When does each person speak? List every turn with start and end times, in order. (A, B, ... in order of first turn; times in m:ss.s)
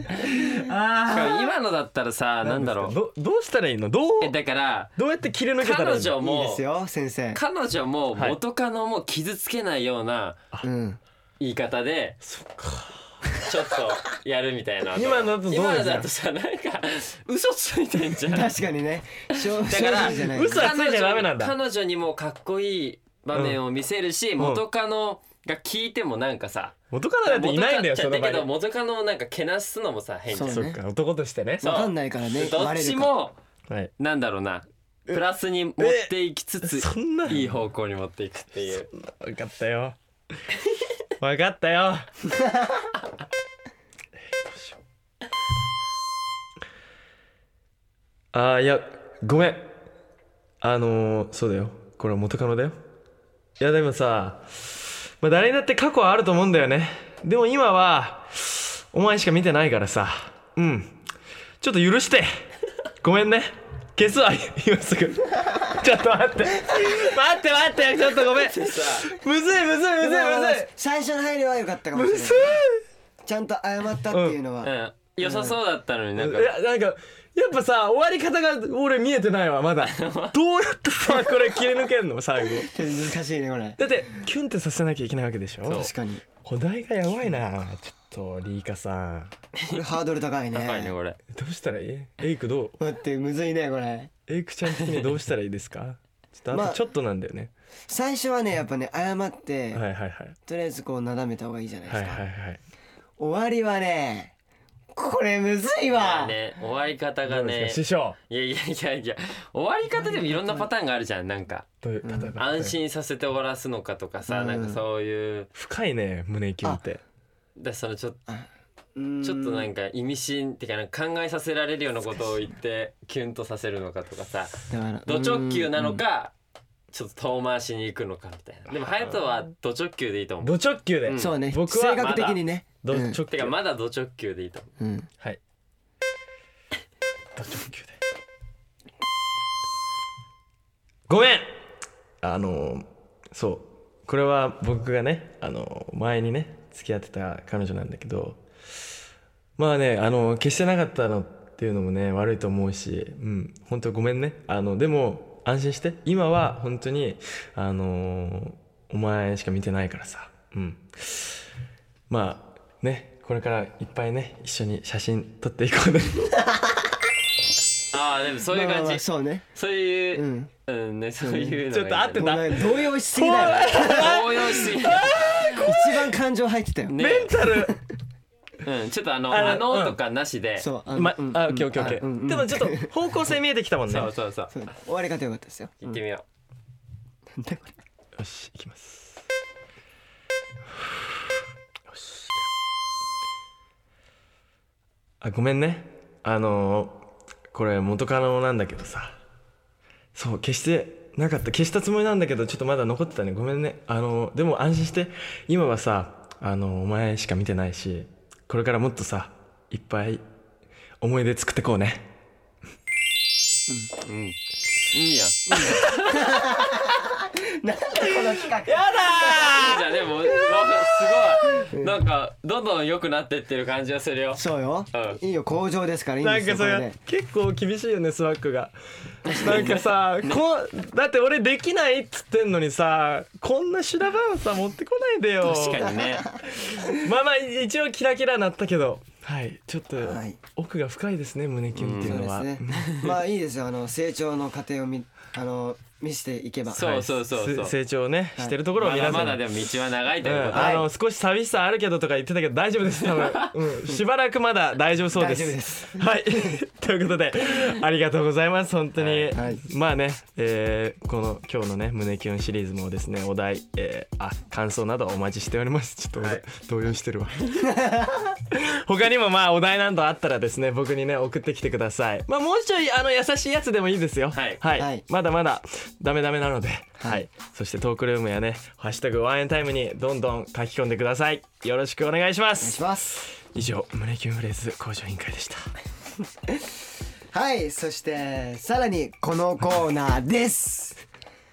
0:00.3-0:01.5 A
0:01.1-0:03.0 B
0:02.4-0:04.4 A
0:04.2-0:04.9 B
0:05.0-0:06.2 A
0:05.6-0:06.6 B
0:06.2-0:07.4 C
0:07.3-0:10.4 B
0:10.6-0:11.0 C
0:11.4-0:12.2 B
0:12.2-0:13.3 A
0:13.4-0:18.5 B
0:15.0-0:16.1 A
0:18.3-0:20.7 C
0:19.6-0:30.7 B
0:19.8-0:21.5 A
0:23.3-0:23.6 A
0:24.4-0:24.6 A
0:26.9-0:28.5 A
0:30.3-0:30.8 C
0:30.4-0:31.8 A
0:31.6-0:33.1 C
0:31.6-0:33.4 B
0:34.0-0:38.9 B
0:35.8-0:37.6 A
0:38.6-0:40.0 A
0:41.2-0:42.2 A
0:44.3-0:44.8 A
0:48.3-0:49.7 A
0:50.6-0:52.8 A
0:53.6-1:01.0 A
1:01.6-1:02.3 A
1:03.0-1:10.7 A
1:08.4-1:09.2 B
1:10.0-1:12.6 C
1:11.9-1:12.8 A
1:13.2-1:15.6 C
1:14.1-1:14.4 A
1:14.6-1:16.5 B
1:16.2-1:22.7 A
1:19.8-1:20.3 B
1:22.7-1:23.8 C
1:23.8-1:25.9 A
1:25.6-1:25.9 B
1:25.7-1:26.2 C
1:26.4-1:29.3 A
1:29.7-1:30.9 C
1:30.5-1:31.2 B
1:31.3-1:32.8 A
1:32.8-1:34.1 C
1:34.3-1:37.5 A
1:34.7-1:35.1 B
1:36.5-1:36.8 C
1:37.9-1:39.8 C
1:39.7-1:40.4 A
1:40.5-1:42.2 C
1:41.9-1:42.6 A
1:43.2-1:44.3 C
1:44.9-1:46.3 C
1:45.9-1:51.7 B
1:47.3-1:48.2 A
1:50.1-1:50.6 C
1:51.8-1:52.8 A
1:52.0-1:52.3 C
1:52.4-1:55.5 B
1:54.3-1:54.8 C
1:55.5-1:57.0 A
1:57.6-1:58.2 B
1:58.3-1:59.7 C
1:59.2-2:06.3 B
2:04.7-2:06.0 C
2:06.9-2:11.4 B
2:10.4-2:13.5 A
2:11.2-2:13.2 C
2:12.0-2:12.4 B
2:13.2-2:14.7 B
2:14.8-2:15.1 C
2:17.3-2:18.0 A
2:21.1-2:21.6 A
2:22.2-2:28.4 A
2:29.6-2:41.4 A
2:42.1-2:46.4 A
2:47.9-2:52.6 B
2:48.5-2:49.4 C
2:50.1-2:50.5 C
2:51.2-2:51.6 C
2:51.7-2:56.2 A
2:52.1-2:54.4 C
2:53.3-2:55.4 B
2:55.5-2:57.8 C
2:56.9-2:57.3 B
2:57.0-2:57.8 A
2:58.6-3:00.7 B
2:59.3-3:00.0 A
3:00.6-3:02.9 C
3:00.9-3:04.1 A
3:03.9-3:04.5 B
3:04.5-3:06.0 C
3:05.8-3:06.2 B
3:07.3-3:07.7 C
3:08.2-3:09.2 A
3:10.7-3:12.4 A
3:15.2-3:19.2 A
3:20.1-3:30.2 A
3:31.0-3:32.1 A
3:34.0-3:34.4 B
3:34.9-3:36.4 B
3:35.5-3:35.9 A
3:35.7-3:39.7 C
3:38.0-3:40.7 A
3:39.4-3:45.2 B
3:41.3-3:41.6 A
3:41.5-3:41.9 C
3:44.3-3:47.0 C
3:46.2-3:56.0 A
3:49.3-3:50.4 B
3:55.4-3:56.3 B
3:55.8-3:57.0 C
3:56.5-4:03.1 A
4:00.0-4:00.4 C
4:01.8-4:02.2 B
4:02.0-4:07.0 C
4:06.7-4:07.7 B
4:06.8-4:09.5 A
4:08.8-4:10.8 B
4:10.2-4:27.7 A
4:10.5-4:10.9 C
4:13.1-4:13.5 B
4:15.1-4:16.1 C
4:19.0-4:19.4 B
4:19.3-4:19.6 C
4:27.6-4:28.4 C
4:28.5-4:45.7 A
4:34.3-4:34.6 B
4:34.7-4:35.0 C
4:37.0-4:37.2 C
4:42.6-4:43.2 C
4:47.3-4:51.0 C